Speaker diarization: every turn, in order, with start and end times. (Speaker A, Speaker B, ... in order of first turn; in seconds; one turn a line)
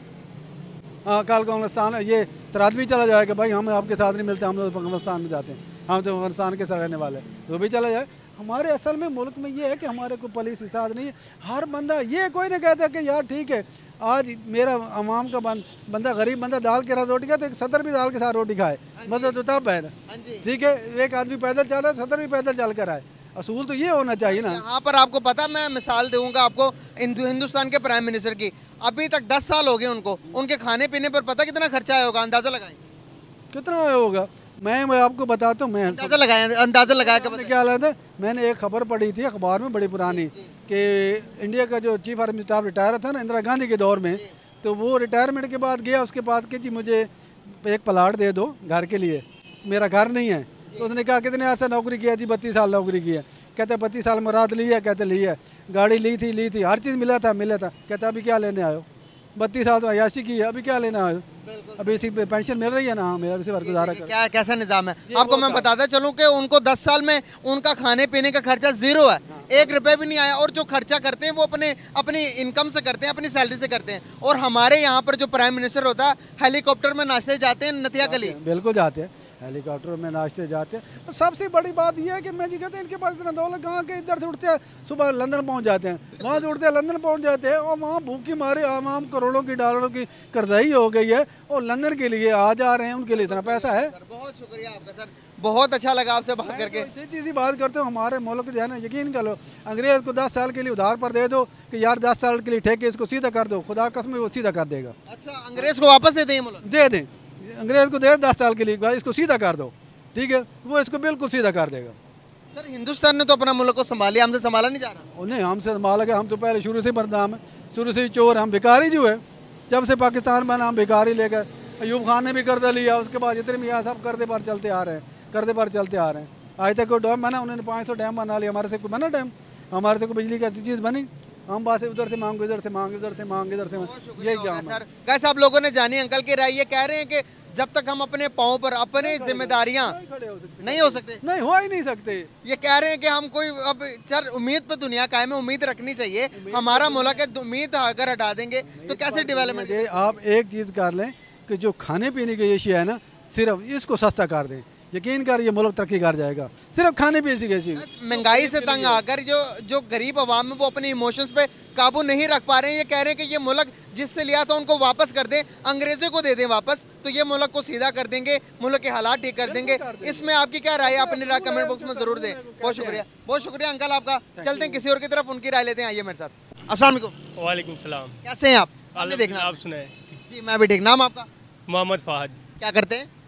Speaker A: 1.1-24.6
Speaker B: 19.0-19.4
Speaker B: 20.1-20.4
Speaker B: 24.2-32.8
Speaker A: 33.5-36.2
Speaker B: 35.9-37.5
Speaker A: 37.0-61.3
Speaker B: 40.1-40.5
Speaker B: 61.4-62.0
Speaker A: 61.8-64.1
Speaker B: 63.6-78.4
Speaker A: 65.1-65.7
Speaker A: 69.3-69.8
Speaker A: 78.0-93.9
Speaker B: 93.1-96.9
Speaker A: 96.4-105.0
Speaker B: 105.1-106.6
Speaker A: 106.6-112.0
Speaker B: 112.5-115.0
Speaker A: 115.2-134.8
Speaker B: 133.7-139.9
Speaker A: 139.0-142.3
Speaker B: 140.6-141.2
Speaker B: 142.4-150.2
Speaker A: 146.3-147.2
Speaker A: 148.7-159.0
Speaker B: 157.8-177.2
Speaker A: 169.4-173.1
Speaker A: 174.3-174.8
Speaker C: 177.4-178.2
Speaker B: 178.2-179.6
Speaker C: 178.9-180.2
Speaker B: 180.3-181.3
Speaker C: 181.7-182.4
Speaker B: 182.6-183.1